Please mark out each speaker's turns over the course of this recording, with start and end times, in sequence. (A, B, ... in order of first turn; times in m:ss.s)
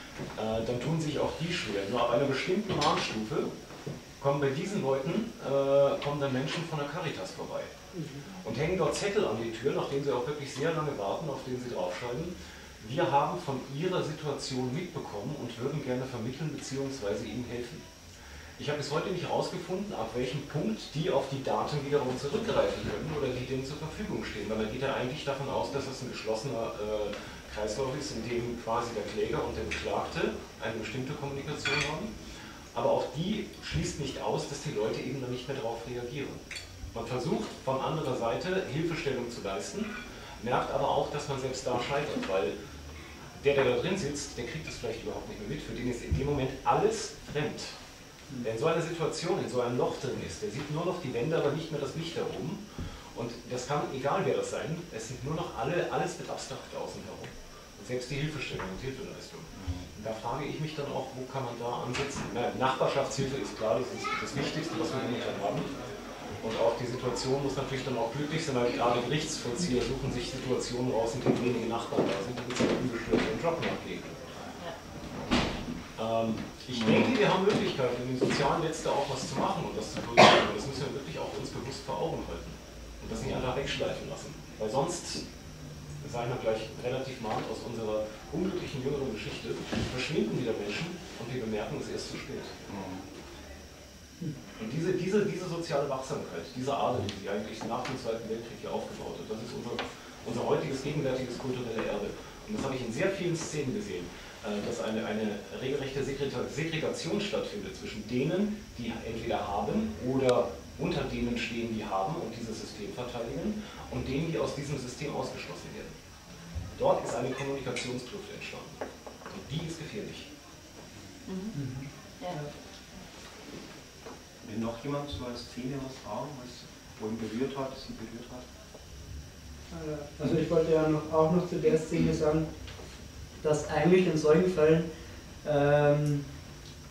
0:00.3-0:03.5 A
0:04.2-0:07.7 A
0:07.9-0:08.2 B
0:08.4-0:17.8 A
0:18.6-0:32.1 A
0:32.7-0:36.4 A
0:36.9-0:42.5 A
0:43.4-0:47.7 A
0:48.4-0:52.6 A
0:53.1-1:05.7 A
0:59.6-0:59.8 C
1:06.4-1:14.2 A
1:16.0-1:25.2 A
1:16.7-1:17.1 C
1:26.0-1:32.6 A
1:32.7-1:33.0 C
1:34.6-1:56.0 A
1:56.7-2:00.3 A
2:01.5-2:02.5 B
2:04.4-2:08.4 C
2:09.7-2:12.5 B
2:13.4-2:14.9 B
2:15.4-2:16.2 B